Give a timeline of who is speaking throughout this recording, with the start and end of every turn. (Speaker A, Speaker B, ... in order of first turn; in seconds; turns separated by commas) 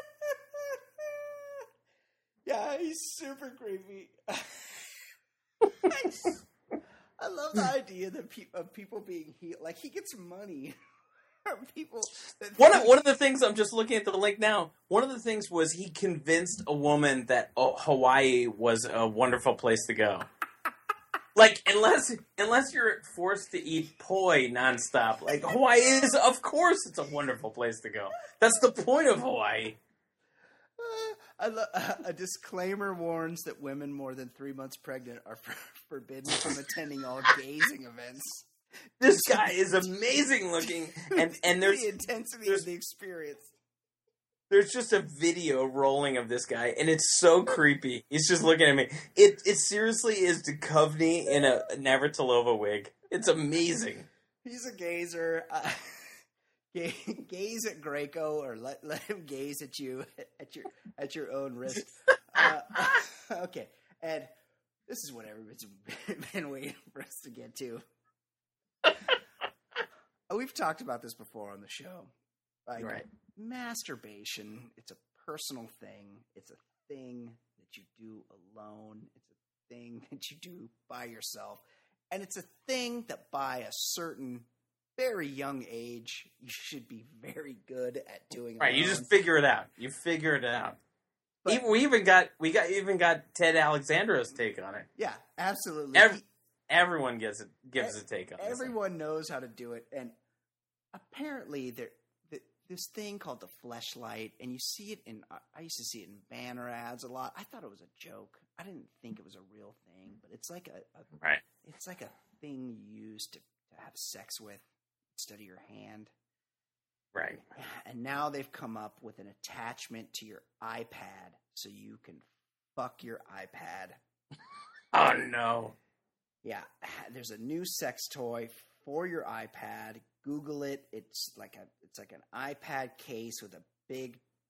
Speaker A: 0.2-1.7, Speaker A: 2.5-4.9, Speaker A: 5.8-6.4, Speaker A: 7.2-10.8, Speaker A: 11.4-13.0, Speaker B: 12.6-20.3, Speaker B: 21.4-29.8, Speaker A: 30.8-38.5, Speaker B: 39.0-41.9, Speaker A: 39.0-39.9, Speaker A: 40.6-43.5, Speaker B: 44.5-54.1, Speaker A: 54.4-56.1, Speaker A: 56.7-64.3, Speaker A: 64.9-67.8, Speaker A: 70.3-72.1, Speaker A: 72.7-89.1, Speaker B: 72.8-73.1, Speaker B: 88.6-90.8, Speaker B: 91.5-94.9, Speaker A: 95.0-96.2, Speaker B: 95.9-98.7, Speaker A: 97.8-100.2, Speaker A: 100.9-114.6, Speaker A: 115.2-116.1, Speaker B: 117.2-117.5, Speaker A: 117.5-124.0, Speaker B: 124.9-125.8, Speaker A: 126.4-134.2